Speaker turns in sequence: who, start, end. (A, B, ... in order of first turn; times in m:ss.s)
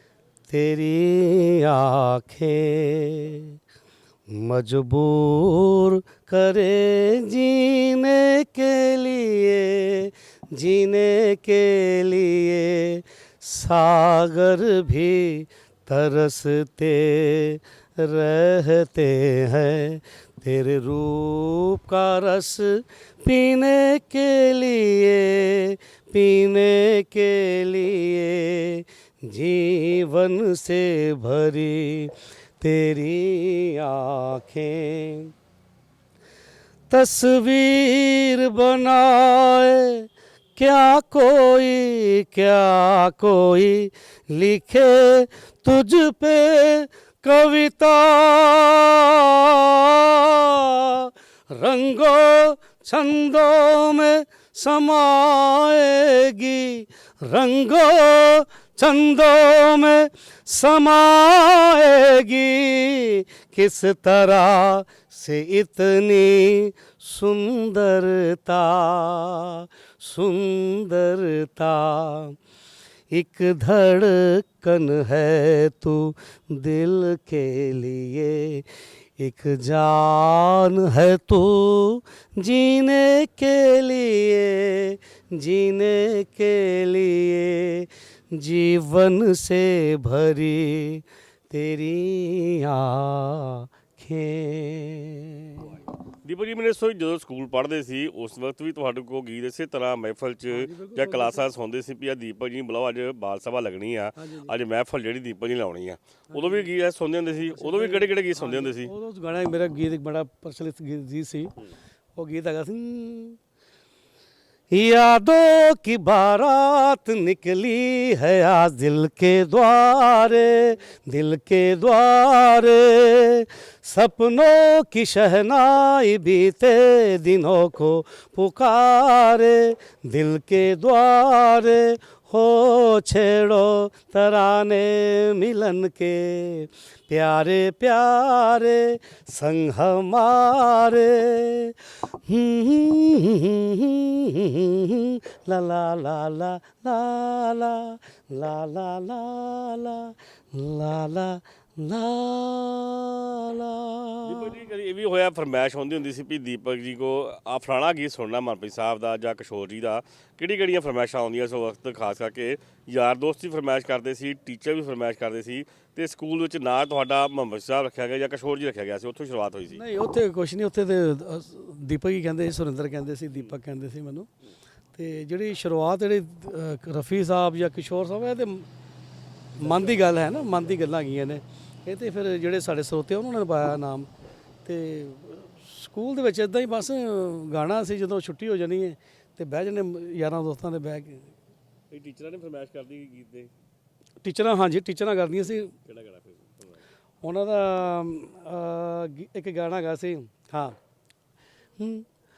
0:00.5-0:03.5 A
0:04.3-0:35.3 A
0:36.9-0:40.0 A
0:40.6-1:12.3 A
1:13.1-1:18.6 A
1:19.2-1:35.6 A
1:35.6-1:48.9 B
1:40.5-1:41.4 C
1:44.2-1:44.5 C
1:46.3-1:46.7 C
1:47.5-1:51.5 C
1:52.2-1:53.4 C
1:54.7-2:21.7 A
2:22.3-2:34.5 A
2:34.2-2:49.8 B
2:49.7-2:54.3 C
2:54.9-2:58.6 C
2:59.6-3:00.8 B
2:59.6-3:04.1 C
3:04.6-3:11.2 C
3:11.9-3:13.5 B
3:14.2-3:15.7 C
3:15.8-3:16.8 B
3:17.2-3:20.7 C
3:21.8-3:22.0 A